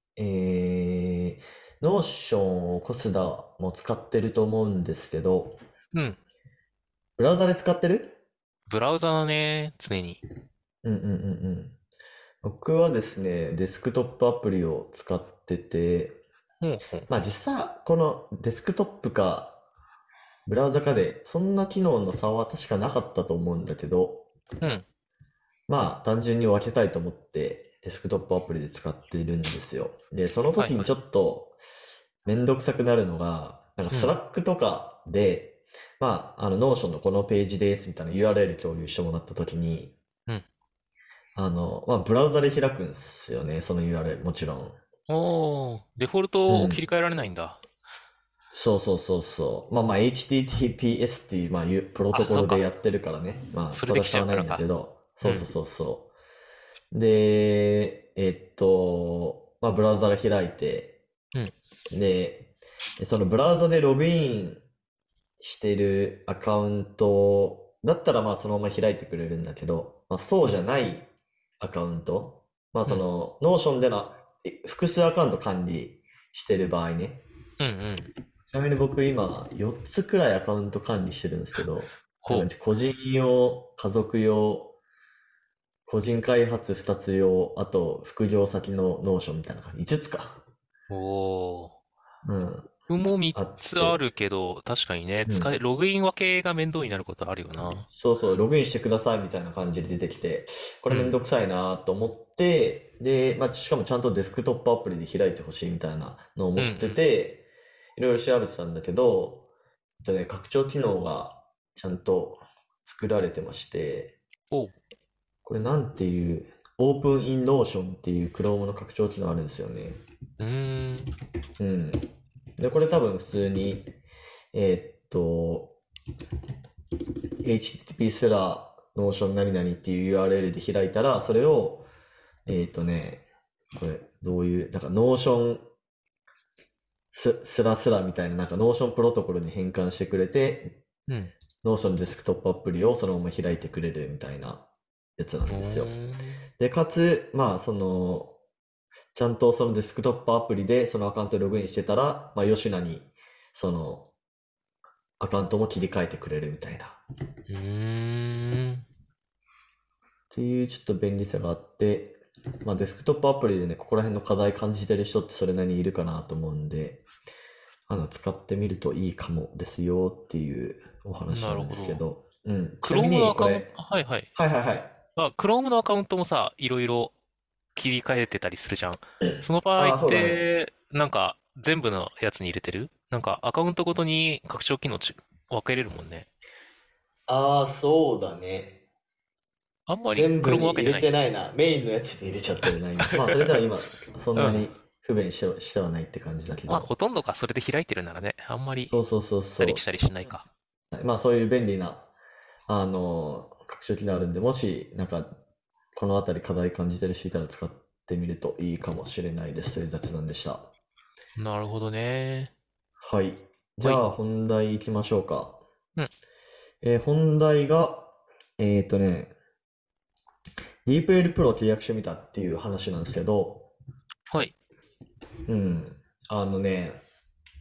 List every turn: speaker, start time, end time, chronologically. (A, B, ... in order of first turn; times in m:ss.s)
0:00.2-0:05.6 A
0:05.9-0:06.2 B
0:07.2-0:08.2 A
0:08.7-0:10.2 B
0:10.8-0:11.8 A
0:12.4-0:16.2 A
0:16.6-0:17.1 B
0:17.1-0:19.6 A
0:20.4-0:24.3 A
0:24.6-0:24.8 B
0:25.7-0:31.6 A
0:30.6-0:30.9 B
0:32.2-0:39.9 A
0:33.9-0:34.2 B
0:41.4-0:44.8 A
0:45.1-0:47.6 B
0:46.5-0:46.8 A
0:48.5-0:56.1 A
0:52.1-0:52.6 B
0:53.7-0:54.6 B
0:55.2-0:55.5 B
0:56.9-1:01.0 A
1:01.9-1:04.6 A
1:05.4-1:11.1 A
1:11.6-1:17.2 A
1:17.6-1:18.1 B
1:18.5-1:24.7 A
1:22.2-1:22.5 B
1:25.9-1:30.4 A
1:30.9-1:31.7 B
1:32.2-1:32.7 A
1:32.9-1:37.8 B
1:33.3-1:34.0 A
1:35.2-1:35.5 A
1:37.6-1:47.4 A
1:40.9-1:41.2 B
1:46.6-1:47.0 B
1:48.0-1:49.5 A
1:50.0-1:54.1 A
1:54.5-1:54.8 B
1:55.4-2:00.0 A
2:00.4-2:01.1 B
2:01.6-2:02.0 A
2:02.6-2:03.9 A
2:04.5-2:05.8 A
2:07.4-2:11.9 A
2:12.5-2:15.6 A
2:17.1-2:20.8 A
2:21.1-2:21.3 B
2:21.6-2:25.9 A
2:25.5-2:26.4 B
2:26.6-2:28.3 A
2:29.1-2:34.1 A
2:35.2-2:37.0 A
2:37.5-2:38.8 B
2:40.3-2:47.0 A
2:47.9-2:53.7 A
2:51.3-2:52.0 B
2:52.8-2:54.3 B
2:54.3-2:54.9 A
2:55.2-2:57.1 B
2:57.7-3:06.3 B
2:59.2-3:00.4 A
3:07.3-3:08.8 A
3:09.9-3:11.1 B
3:10.1-3:16.9 A
3:13.0-3:13.5 B
3:14.4-3:14.7 B
3:16.7-3:18.9 B
3:18.8-3:19.8 A
3:19.6-3:20.5 B
3:20.9-3:22.1 A
3:22.7-3:25.4 A
3:25.9-3:30.7 A
3:31.4-3:32.5 B
3:33.0-3:35.6 A
3:33.8-3:34.0 B
3:36.8-3:39.3 A
3:40.8-3:43.7 A
3:44.3-3:44.5 B
3:45.5-3:47.0 A